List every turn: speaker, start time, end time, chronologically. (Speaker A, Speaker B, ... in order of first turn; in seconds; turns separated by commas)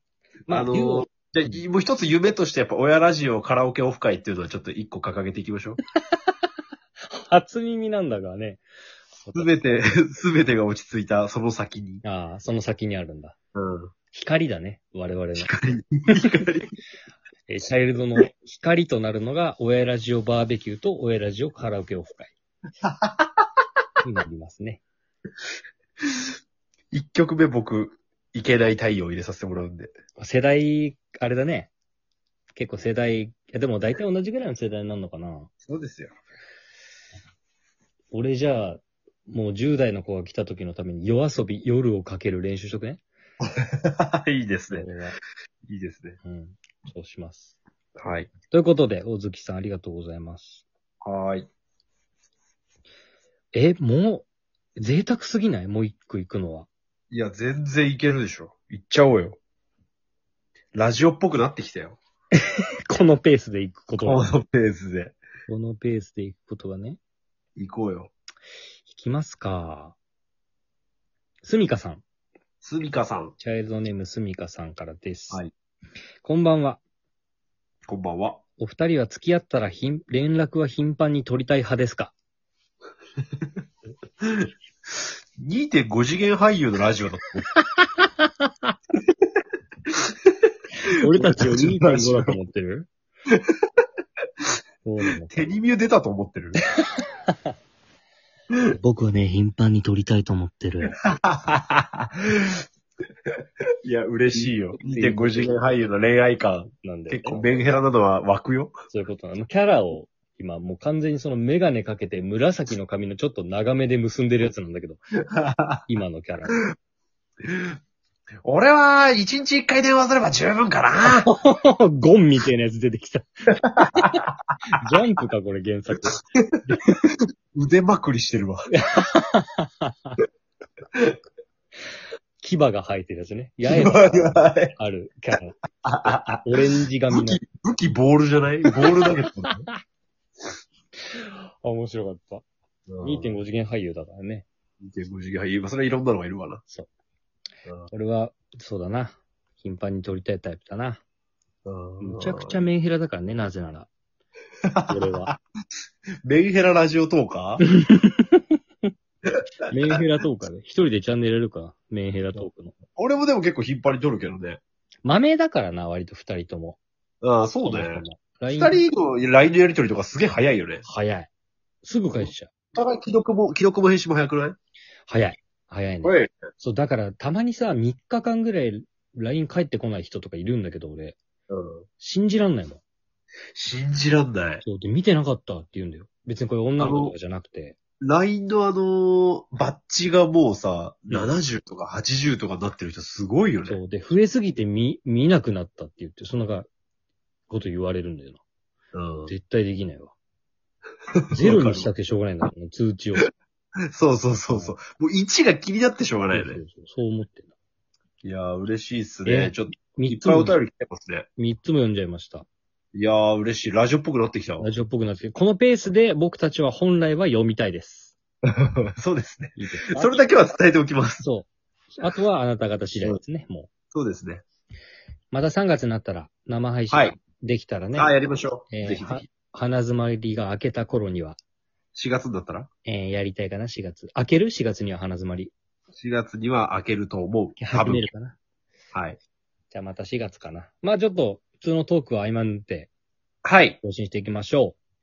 Speaker A: 0.5-1.6, Speaker B: 0.5-5.8, Speaker A: 7.1-8.6, Speaker A: 9.2-9.5, Speaker B: 9.3-12.0, Speaker A: 12.0-13.4, Speaker B: 13.6-13.9, Speaker A: 14.1-15.5, Speaker B: 15.3-16.8, Speaker A: 17.5-22.3, Speaker B: 22.8-23.4, Speaker A: 24.0-24.8, Speaker B: 26.9-29.9, Speaker A: 30.2-31.7, Speaker A: 32.6-35.5, Speaker B: 35.6-36.1, Speaker A: 38.1-43.0, Speaker B: 43.6-44.9, Speaker A: 44.7-45.2, Speaker B: 45.7-46.2, Speaker A: 46.2-47.6, Speaker B: 48.0-48.3, Speaker A: 48.5-50.6, Speaker B: 51.0-51.5, Speaker A: 53.5-54.2, Speaker A: 54.8-56.7, Speaker B: 57.1-59.4, Speaker B: 60.7-62.0, Speaker A: 62.9-64.3, Speaker B: 64.0-65.2, Speaker A: 65.5-67.0, Speaker B: 67.6-68.1, Speaker A: 68.9-70.0, Speaker A: 71.4-72.0, Speaker B: 72.6-73.3, Speaker A: 73.4-75.4, Speaker A: 76.2-76.8, Speaker B: 77.9-78.4, Speaker A: 78.6-82.1, Speaker B: 84.2-84.5, Speaker B: 85.4-87.5, Speaker A: 87.8-88.3, Speaker A: 91.0-92.9, Speaker B: 91.1-92.4, Speaker A: 94.8-95.5, Speaker B: 95.2-96.6, Speaker A: 98.7-101.0, Speaker B: 101.1-102.6, Speaker B: 103.8-108.7, Speaker A: 104.3-105.6, Speaker A: 106.8-107.5, Speaker A: 108.9-115.0, Speaker B: 115.3-115.8, Speaker A: 115.9-116.6, Speaker B: 117.4-117.7, Speaker B: 118.4-121.3, Speaker A: 121.0-127.0, Speaker B: 123.7-124.6, Speaker B: 127.5-128.7, Speaker A: 128.8-130.1, Speaker A: 132.4-135.6, Speaker B: 133.6-134.8, Speaker B: 135.8-139.7, Speaker A: 136.4-137.4, Speaker A: 139.0-139.7, Speaker A: 141.1-142.4, Speaker B: 142.9-143.4, Speaker A: 143.0-144.4, Speaker B: 144.8-146.6, Speaker A: 147.9-151.0, Speaker B: 151.6-152.6, Speaker A: 152.0-153.9, Speaker B: 154.7-155.4, Speaker A: 154.9-155.3, Speaker B: 156.2-157.7, Speaker A: 157.6-158.5, Speaker A: 159.7-162.8, Speaker B: 162.3-164.6, Speaker A: 165.0-166.8, Speaker B: 167.2-170.8, Speaker A: 167.6-168.8, Speaker A: 170.8-171.3, Speaker A: 171.8-172.5, Speaker B: 172.2-174.6, Speaker A: 175.1-181.2, Speaker B: 176.0-176.3, Speaker B: 181.5-181.9, Speaker A: 182.0-182.8, Speaker B: 183.6-184.6, Speaker A: 184.6-187.8, Speaker B: 186.8-187.1, Speaker B: 188.0-193.8, Speaker A: 193.7-196.7, Speaker A: 197.5-198.4, Speaker B: 198.9-199.3, Speaker A: 199.3-200.1, Speaker B: 201.3-201.9, Speaker A: 201.3-203.3, Speaker B: 203.9-206.6, Speaker A: 204.4-204.8, Speaker A: 206.3-207.5, Speaker B: 208.2-211.3, Speaker A: 209.2-210.6, Speaker A: 211.4-212.5, Speaker B: 212.9-214.7, Speaker A: 214.6-218.1, Speaker B: 218.5-221.2, Speaker A: 219.6-220.2, Speaker A: 221.2-223.7, Speaker B: 223.9-224.4, Speaker A: 225.3-228.2, Speaker B: 226.9-227.1, Speaker B: 227.9-229.2, Speaker A: 228.7-231.4, Speaker B: 231.9-232.7, Speaker A: 232.8-235.5, Speaker B: 236.0-238.1, Speaker A: 237.6-238.4, Speaker B: 238.9-239.2, Speaker A: 239.7-242.9, Speaker B: 243.4-243.8, Speaker A: 243.8-244.8